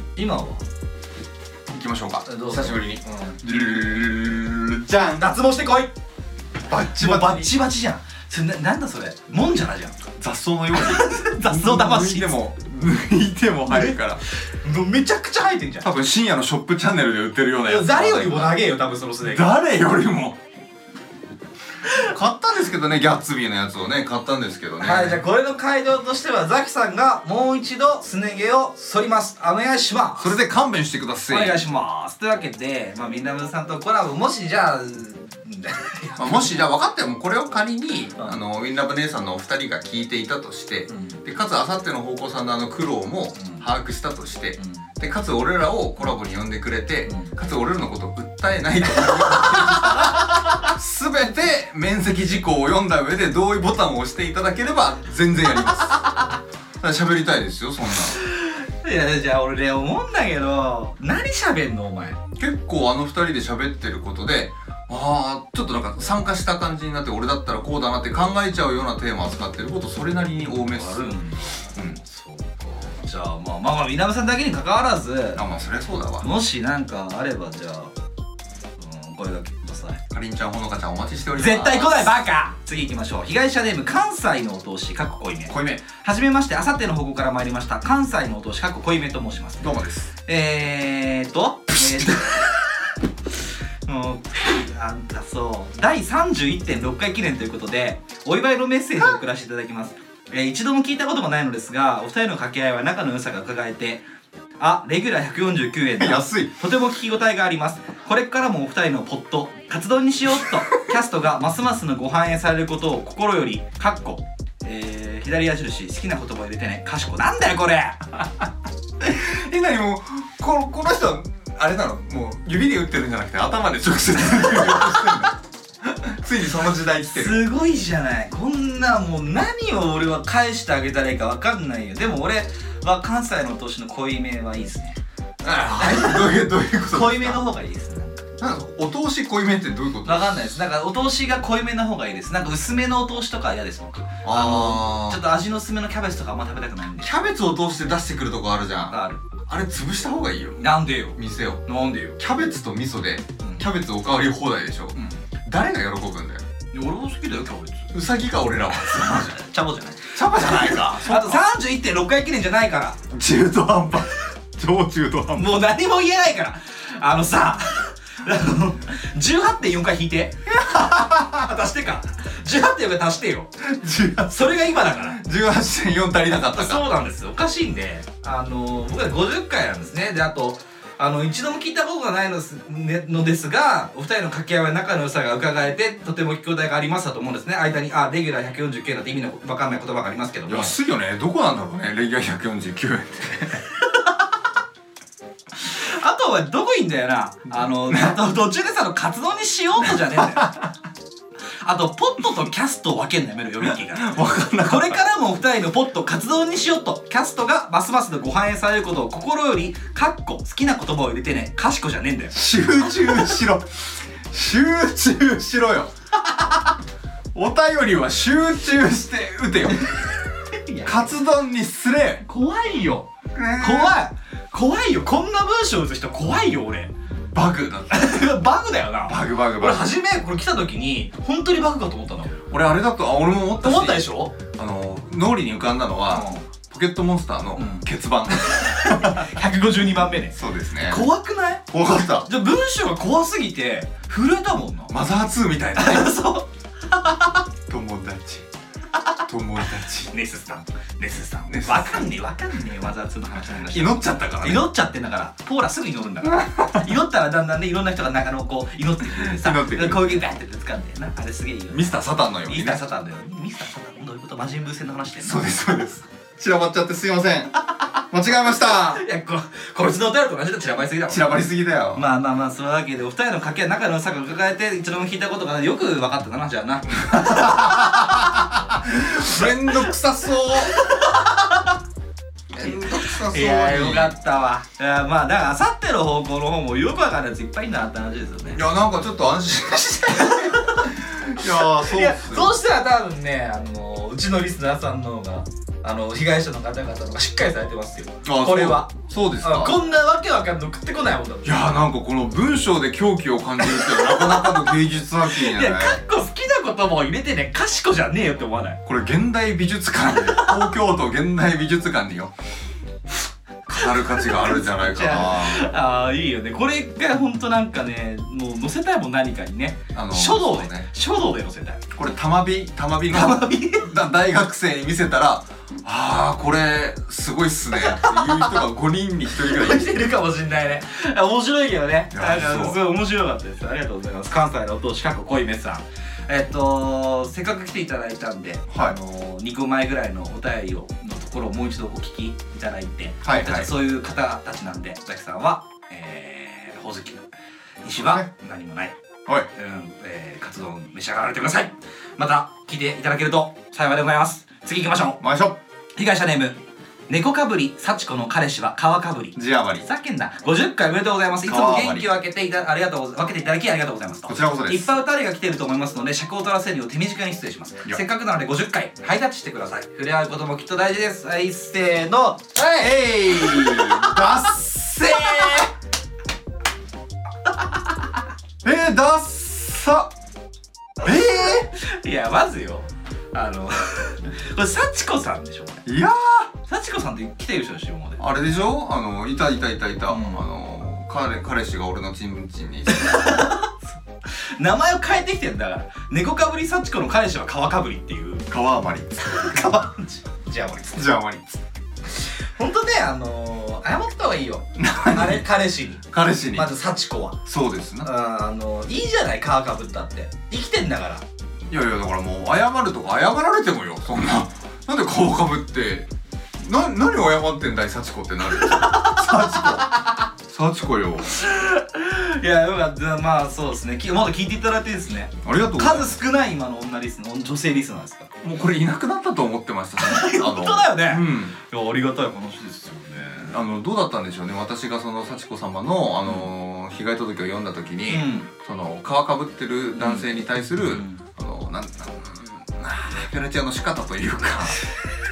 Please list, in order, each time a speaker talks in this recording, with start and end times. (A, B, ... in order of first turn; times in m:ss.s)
0:00.2-0:00.6 A
0:01.7-0:05.3 B
0:02.2-0:03.4 A
0:05.2-0:05.9 A
0:06.6-0:07.5 B
0:06.8-0:10.0 A
0:10.2-0:14.2 B
0:10.7-0:12.4 A
0:13.7-0:15.9 A
0:15.8-0:18.6 B
0:17.6-0:19.4 A
0:19.2-0:20.4 B
0:21.9-0:25.2 B
0:24.8-0:30.4 A
0:30.2-0:31.6 B
0:31.3-0:36.6 A
0:36.2-0:56.0 B
0:40.9-0:41.2 A
0:43.3-0:43.6 A
0:44.6-0:44.9 A
0:47.0-0:47.3 A
0:49.3-0:50.6 A
0:56.8-0:58.2 B
0:58.1-1:02.2 A
1:02.4-1:11.1 B
1:10.4-1:15.6 A
1:11.7-1:12.0 B
1:15.3-1:16.3 B
1:16.2-1:17.9 A
1:18.8-1:20.0 A
1:20.1-1:22.1 B
1:21.4-1:29.7 A
1:25.5-1:25.8 B
1:29.6-1:30.1 B
1:30.2-1:32.7 A
1:33.8-1:44.0 A
1:44.6-1:58.4 A
1:46.0-1:46.5 B
1:59.0-2:07.4 B
2:04.4-2:04.9 A
2:07.1-2:15.0 A
2:15.4-2:17.4 B
2:15.8-2:16.3 A
2:16.9-2:18.2 A
2:18.4-2:20.6 B
2:20.0-2:27.1 A
2:24.2-2:25.2 B
2:27.0-2:31.6 B
2:28.9-2:29.2 A
2:30.6-2:32.2 A
2:32.2-2:36.4 B
2:33.4-2:33.6 A
2:34.9-2:35.2 A
2:36.7-2:37.9 A
2:37.9-2:39.4 B
2:38.8-2:43.0 A
2:40.1-2:41.4 B
2:43.1-2:45.5 B
2:45.3-2:53.5 A
2:50.5-2:51.4 B
2:53.6-2:56.9 B
2:54.2-2:55.2 A
2:56.4-3:10.7 A
3:10.5-3:13.6 B
3:15.6-3:20.5 A
3:17.9-3:18.2 B
3:19.8-3:20.6 B
3:21.6-3:33.4 A
3:23.6-3:25.0 B
3:32.3-3:35.9 B
3:37.3-3:40.2 B
3:40.5-3:41.2 A
3:40.8-3:42.2 B
3:42.2-3:43.1 A
3:43.3-3:44.0 B
3:43.6-3:46.9 A
3:47.3-3:48.3 B
3:47.9-3:52.4 A
3:49.0-3:49.9 B
3:52.5-3:59.3 B
3:53.6-3:54.3 A
3:56.1-3:56.4 A
3:57.6-4:01.7 A
4:00.3-4:01.0 B
4:01.7-4:02.3 B
4:02.2-4:04.9 A
4:04.9-4:06.2 B
4:05.8-4:07.4 A
4:07.7-4:08.5 B
4:09.3-4:10.1 B
4:09.9-4:25.4 A
4:11.5-4:12.1 B
4:13.7-4:14.7 B
4:16.3-4:16.8 B
4:19.0-4:20.2 B
4:21.7-4:22.8 B
4:25.2-4:27.6 B
4:28.1-4:29.0 B
4:28.6-4:31.4 A
4:31.1-4:32.0 B
4:31.9-4:38.5 A
4:37.0-4:40.8 B
4:39.2-4:39.8 A
4:40.5-4:41.8 A
4:42.5-4:44.1 B
4:42.6-4:48.6 A
4:48.5-4:52.6 B
4:50.1-5:01.8 A
4:58.2-4:59.8 B
5:01.4-5:06.0 B
5:03.6-5:08.8 A
5:08.8-5:12.3 B
5:10.2-5:10.7 A
5:13.7-5:15.7 B
5:13.7-5:21.8 A
5:19.9-5:20.9 B
5:21.9-5:30.0 B
5:23.1-5:23.9 A
5:27.7-5:28.6 A
5:29.3-5:47.2 A
5:32.1-5:32.8 B
5:38.7-5:39.0 B
5:43.2-5:43.7 B
5:47.8-5:48.9 A
5:47.9-5:48.3 B
5:49.5-5:55.2 A
5:55.2-5:55.6 B
5:56.0-5:56.6 A
5:57.1-6:14.5 A
5:59.4-5:59.8 B
6:01.4-6:02.1 B
6:04.3-6:04.9 B
6:12.6-6:15.7 B
6:15.1-6:15.6 A
6:17.5-6:17.8 A
6:18.6-6:20.1 B
6:21.0-6:21.7 B
6:21.0-6:25.8 A
6:25.8-6:26.5 B
6:26.6-6:28.2 A
6:28.2-6:33.3 B
6:30.1-6:30.4 A
6:32.9-6:38.5 A
6:38.5-6:39.6 B
6:39.2-6:41.0 A
6:40.9-6:41.6 B
6:42.6-6:47.4 A
6:44.8-6:45.5 B
6:46.1-6:46.7 B
6:47.4-6:48.1 B
6:48.0-6:51.2 A
6:51.7-6:59.9 B
6:58.6-7:00.2 A
7:00.5-7:01.4 B
7:01.3-7:08.3 A
7:05.4-7:06.2 B
7:08.4-7:11.5 B
7:10.0-7:13.6 A
7:13.4-7:24.8 B
7:18.1-7:18.5 A
7:20.0-7:21.2 A